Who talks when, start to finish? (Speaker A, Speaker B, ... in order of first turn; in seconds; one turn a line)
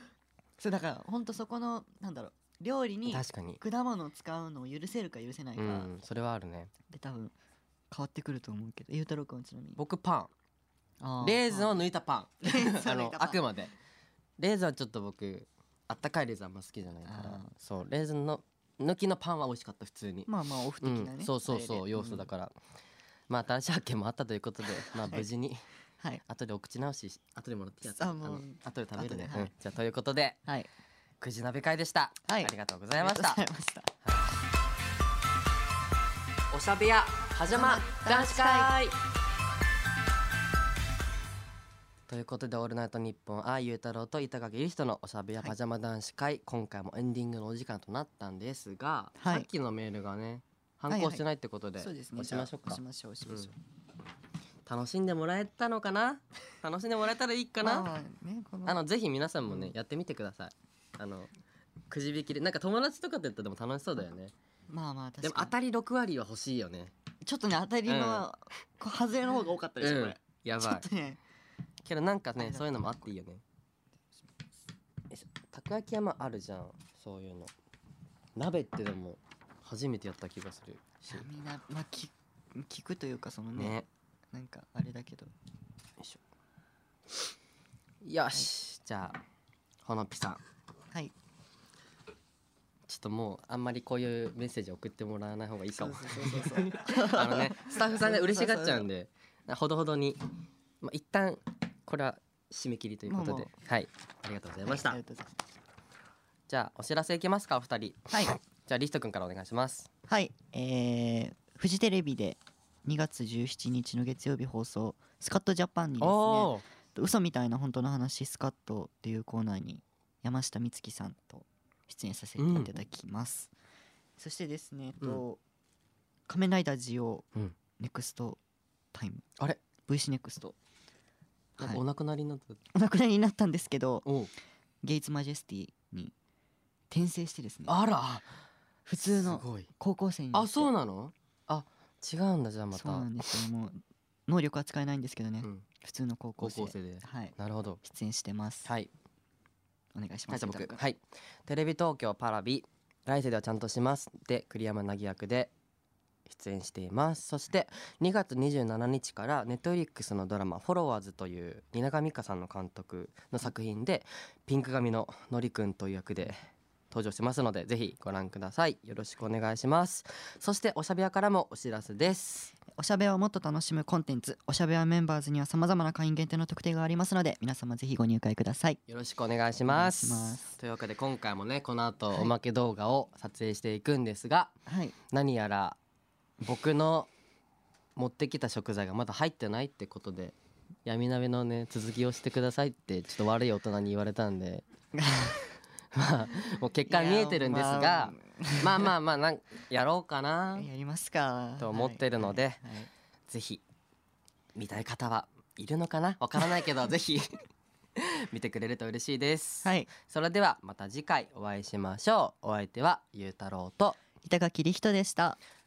Speaker A: 0.6-5.9
Speaker B: 3.1-3.6
Speaker B: 5.6-6.7
Speaker A: 6.9-7.3
Speaker A: 7.9-9.8
Speaker B: 9.8-10.3
Speaker A: 11.0-11.8
Speaker B: 11.2-13.7
Speaker A: 12.4-13.4
Speaker B: 14.4-22.6
Speaker A: 17.1-17.5
Speaker A: 20.3-22.3
Speaker B: 23.3-25.6
Speaker A: 24.9-25.3
Speaker B: 26.2-30.4
Speaker A: 27.9-29.5
Speaker B: 31.2-33.4
Speaker A: 32.3-33.9
Speaker B: 34.0-34.4
Speaker B: 36.5-39.0
Speaker A: 37.5-38.7
Speaker B: 42.1-53.5
Speaker A: 49.2-49.5
Speaker A: 50.9-51.2
Speaker A: 51.8-53.6
Speaker B: 54.7-57.9
Speaker A: 57.6-58.8
Speaker B: 58.6-61.3
Speaker A: 59.5-59.7
Speaker B: 61.9-64.3
Speaker A: 64.7-65.6
Speaker B: 65.2-66.9
Speaker A: 67.2-71.2
Speaker B: 67.9-68.3
Speaker B: 69.8-70.9
Speaker B: 71.8-73.4
Speaker A: 72.4-73.1
Speaker B: 75.1-77.5
Speaker B: 78.4-81.3
Speaker A: 81.1-83.8
Speaker B: 83.6-83.9
Speaker A: 84.3-85.3
Speaker B: 88.0-89.2
Speaker B: 89.8-90.4
Speaker B: 92.9-100.2
Speaker A: 95.8-98.9
Speaker B: 100.8-105.0
Speaker A: 103.1-103.5
Speaker A: 104.6-105.5
Speaker B: 106.5-109.9
Speaker A: 110.1-123.5
Speaker B: 116.0-116.7
Speaker B: 122.4-122.7
Speaker A: 124.2-125.4
Speaker A: 126.3-128.4
Speaker A: 128.9-129.3
Speaker A: 129.8-130.6
Speaker A: 131.6-131.8
Speaker B: 131.6-132.6
Speaker A: 132.7-134.1
Speaker B: 134.1-134.3
Speaker A: 134.8-136.1
Speaker A: 136.9-137.7
Speaker B: 137.7-138.3
Speaker A: 138.9-140.7
Speaker B: 139.1-139.7
Speaker B: 140.3-143.4
Speaker A: 142.7-148.7
Speaker B: 146.4-147.8
Speaker B: 148.7-148.9
Speaker A: 149.9-150.8
Speaker B: 150.3-155.5
Speaker B: 156.3-166.4
Speaker B: 166.9-172.6
Speaker A: 172.7-178.8
Speaker B: 178.9-184.6
Speaker A: 179.7-180.6
Speaker A: 184.7-185.0
Speaker B: 185.1-185.8
Speaker B: 186.4-187.1
Speaker B: 188.0-190.3
Speaker B: 190.9-194.7
Speaker A: 194.9-195.6
Speaker B: 195.9-200.7
Speaker A: 196.9-198.9
Speaker A: 200.6-202.9
Speaker B: 201.6-202.6
Speaker B: 203.3-203.6
Speaker B: 204.6-214.0
Speaker A: 209.6-209.9
Speaker A: 214.2-215.4